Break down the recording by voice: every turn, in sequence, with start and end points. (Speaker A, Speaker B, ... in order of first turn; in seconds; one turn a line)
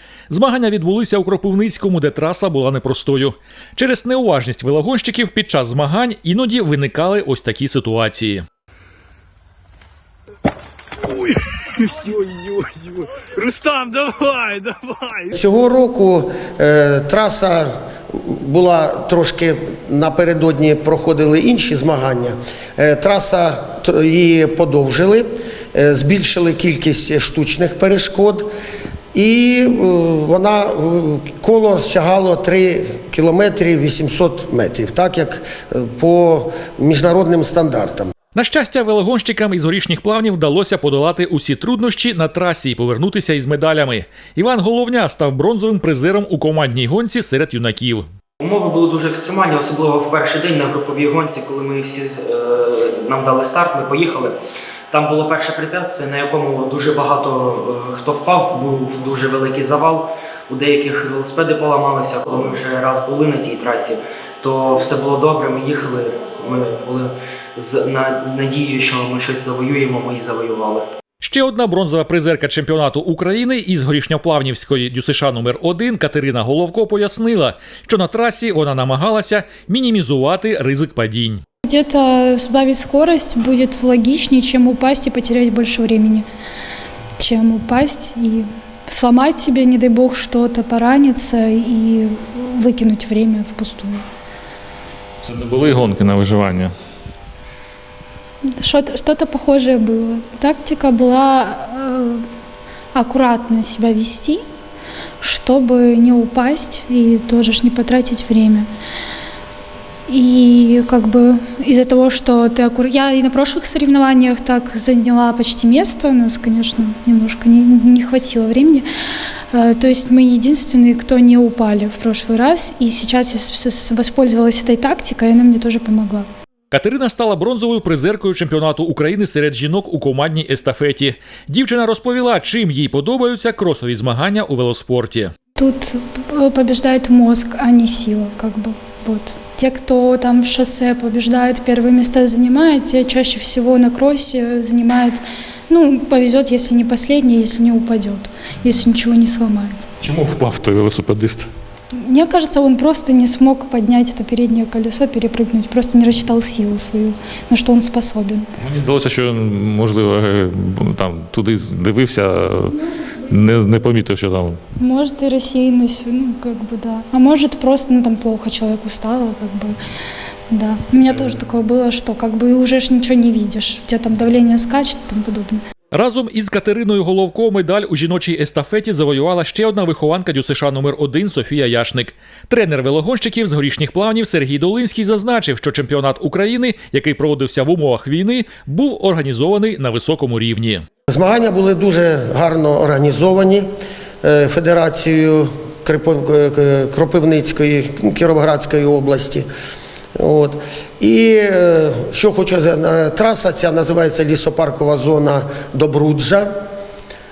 Speaker A: 0.3-8.4
Speaker B: 11.2-15.3
Speaker C: 15.3-28.5
Speaker C: 29.1-38.1
Speaker A: 38.4-48.1
Speaker D: 48.4-54.4
Speaker D: 54.9-70.9
Speaker A: 71.2-81.4
Speaker E: 81.7-86.2
Speaker E: 87.2-94.0
Speaker F: 95.2-96.7
Speaker E: 98.5-102.2
Speaker E: 102.9-104.4
Speaker E: 105.2-108.7
Speaker E: 110.1-118.9
Speaker E: 119.5-126.3
Speaker A: 126.7-135.3
Speaker E: 135.6-149.9
Speaker F: 150.0-151.5
Speaker E: 152.0-158.5
Speaker F: 158.6-164.6
Speaker E: 164.8-169.8
Speaker E: 170.5-175.6
Speaker A: 175.9-190.8
Speaker C: 191.1-193.7
Speaker C: 194.2-199.4
Speaker C: 200.2-206.5